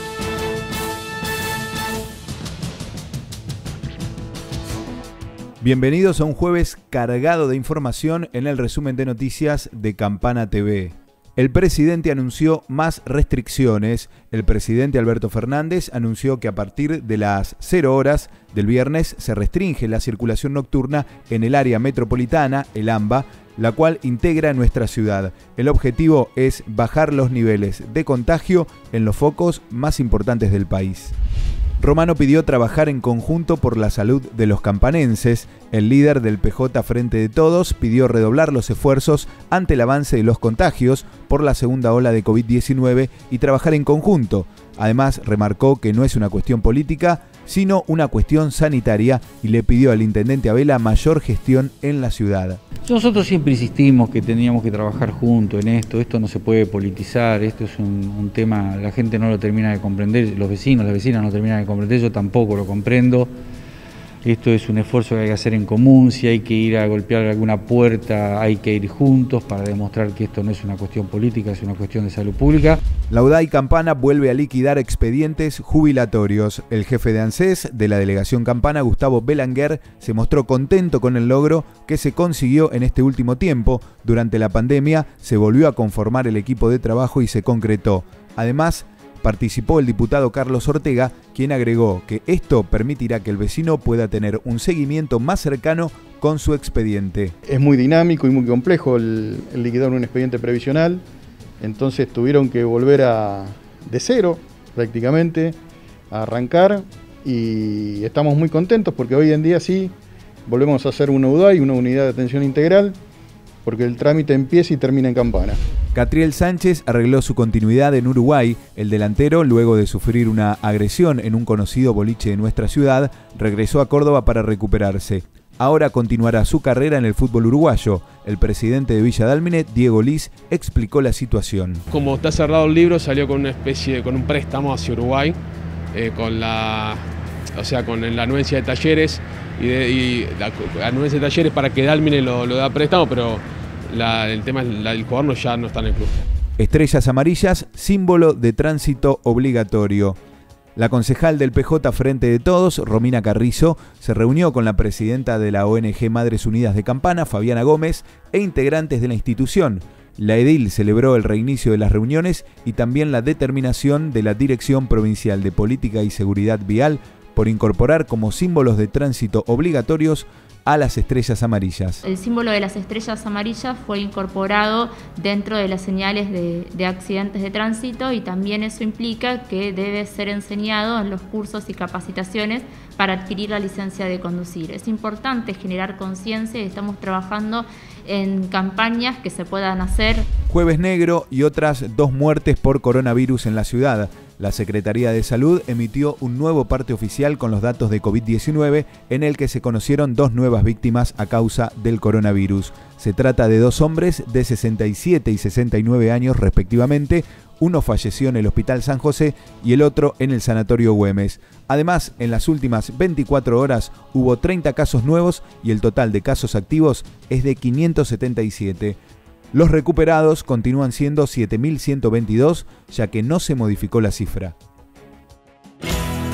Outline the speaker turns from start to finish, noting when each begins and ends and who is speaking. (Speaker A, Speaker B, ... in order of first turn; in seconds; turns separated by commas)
Speaker A: 5.6-31.1, Speaker A: 31.8-52.6, Speaker B: 52.9-63.3, Speaker B: 64.2-72.8, Speaker A: 73.1-97.3, Speaker C: 97.5-101.0, Speaker C: 101.6-105.6, Speaker C: 106.1-109.9, Speaker C: 110.5-113.0, Speaker C: 113.6-115.6, Speaker A: 115.9-131.8, Speaker D: 131.9-135.4, Speaker D: 135.9-137.0, Speaker D: 137.6-146.2, Speaker A: 146.6-150.2, Speaker A: 150.8-172.0, Speaker E: 172.0-190.3, Speaker A: 190.5-219.0, Speaker A: 219.5-224.5